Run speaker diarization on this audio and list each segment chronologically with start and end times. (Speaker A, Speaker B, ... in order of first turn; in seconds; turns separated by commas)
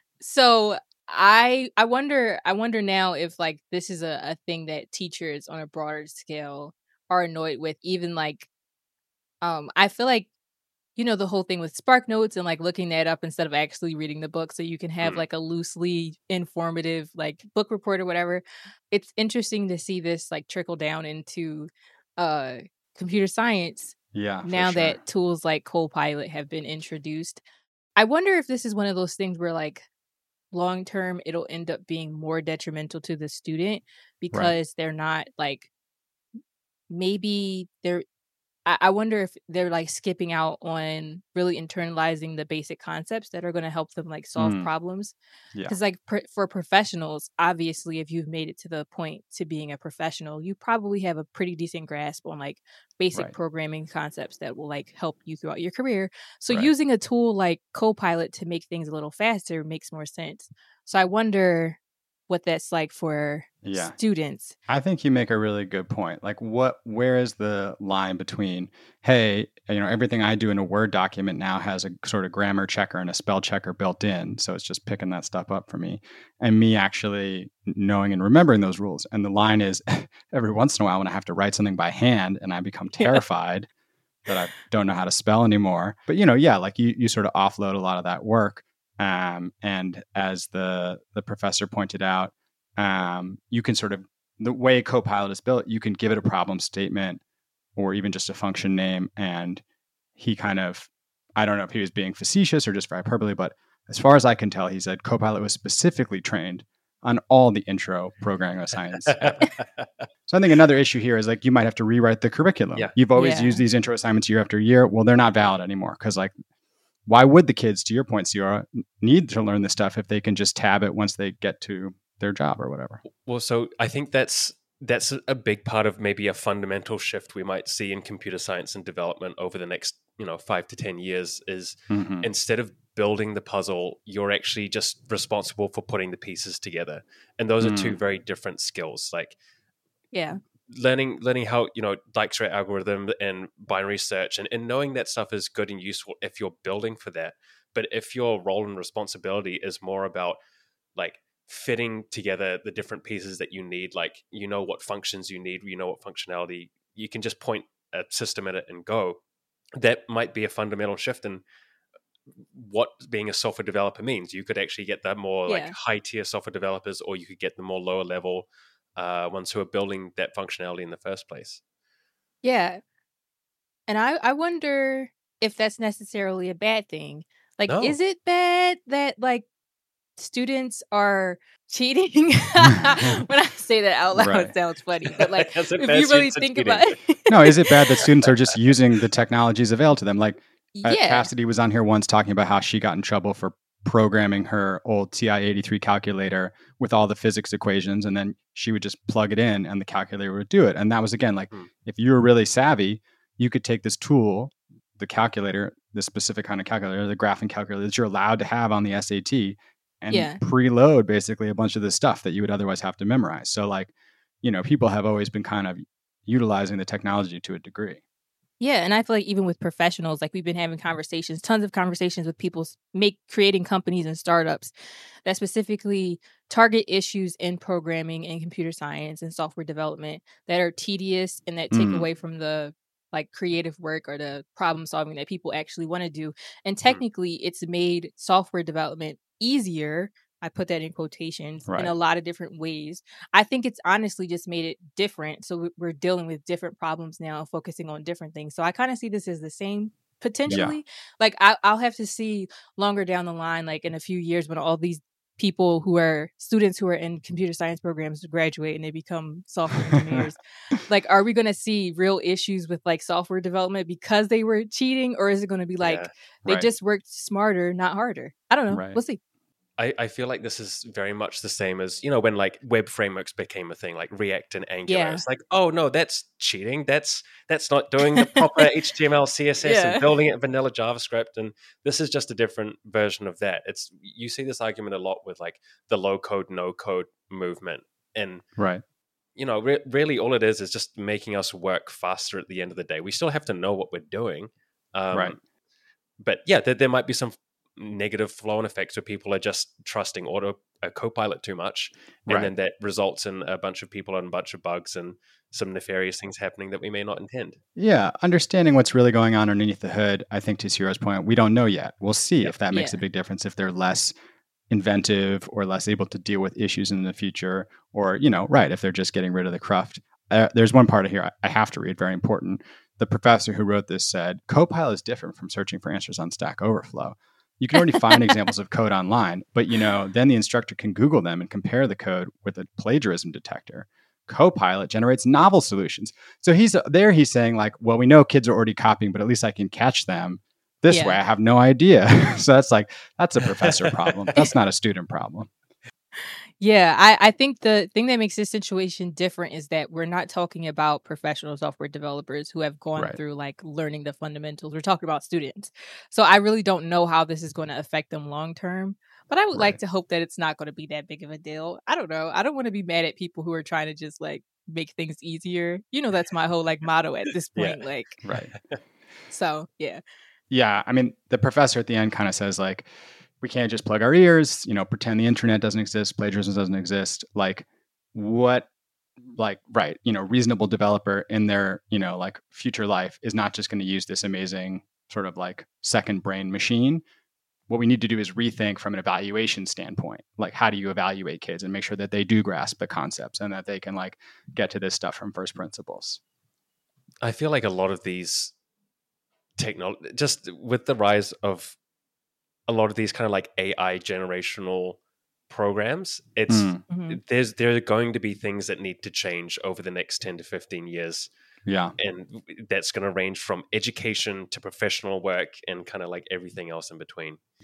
Speaker A: 0.2-8.5, Speaker A: 9.4-10.3, Speaker A: 11.0-27.4, Speaker B: 24.1-25.0, Speaker A: 28.0-29.9, Speaker A: 30.5-35.7, Speaker A: 36.9-38.0, Speaker A: 38.7-45.1, Speaker B: 44.4-44.7, Speaker A: 45.7-64.5, Speaker B: 63.6-64.0, Speaker B: 64.7-83.7, Speaker B: 84.3-97.2, Speaker B: 97.8-99.6, Speaker B: 100.2-109.4, Speaker C: 109.1-109.9, Speaker B: 110.3-116.3, Speaker A: 113.2-113.6, Speaker B: 117.1-123.0, Speaker C: 123.2-139.4, Speaker B: 131.9-132.3, Speaker B: 137.6-138.0, Speaker A: 140.1-140.4, Speaker C: 140.7-150.4, Speaker C: 151.0-159.2, Speaker C: 159.8-161.4, Speaker C: 162.5-171.6, Speaker A: 165.5-165.8, Speaker A: 172.4-172.8, Speaker A: 173.9-179.5, Speaker C: 177.7-178.0, Speaker A: 180.2-188.0, Speaker B: 184.1-184.5, Speaker C: 185.1-186.9, Speaker B: 187.3-213.9, Speaker A: 190.8-191.3, Speaker A: 210.1-210.4, Speaker B: 214.4-218.0, Speaker A: 218.6-224.7, Speaker A: 225.2-269.2, Speaker B: 231.7-232.1, Speaker B: 241.7-241.9, Speaker B: 250.5-250.8, Speaker C: 265.8-266.1, Speaker B: 268.7-269.0, Speaker C: 269.8-288.4, Speaker A: 274.9-275.2, Speaker A: 279.6-280.0, Speaker C: 289.4-295.4, Speaker C: 296.2-307.6, Speaker B: 307.8-314.1, Speaker A: 312.7-313.0, Speaker B: 314.7-345.5, Speaker A: 340.9-341.2, Speaker C: 343.9-344.3, Speaker A: 346.6-368.2, Speaker B: 359.5-359.8, Speaker B: 368.2-368.5, Speaker A: 369.3-370.0, Speaker B: 370.5-372.9, Speaker B: 373.4-378.7, Speaker B: 379.4-387.0, Speaker B: 387.7-396.2, Speaker C: 397.2-398.5, Speaker C: 399.6-401.8, Speaker C: 402.7-405.0, Speaker C: 405.5-411.3, Speaker B: 406.5-406.8, Speaker A: 406.9-407.2, Speaker B: 411.6-411.9, Speaker C: 412.0-417.4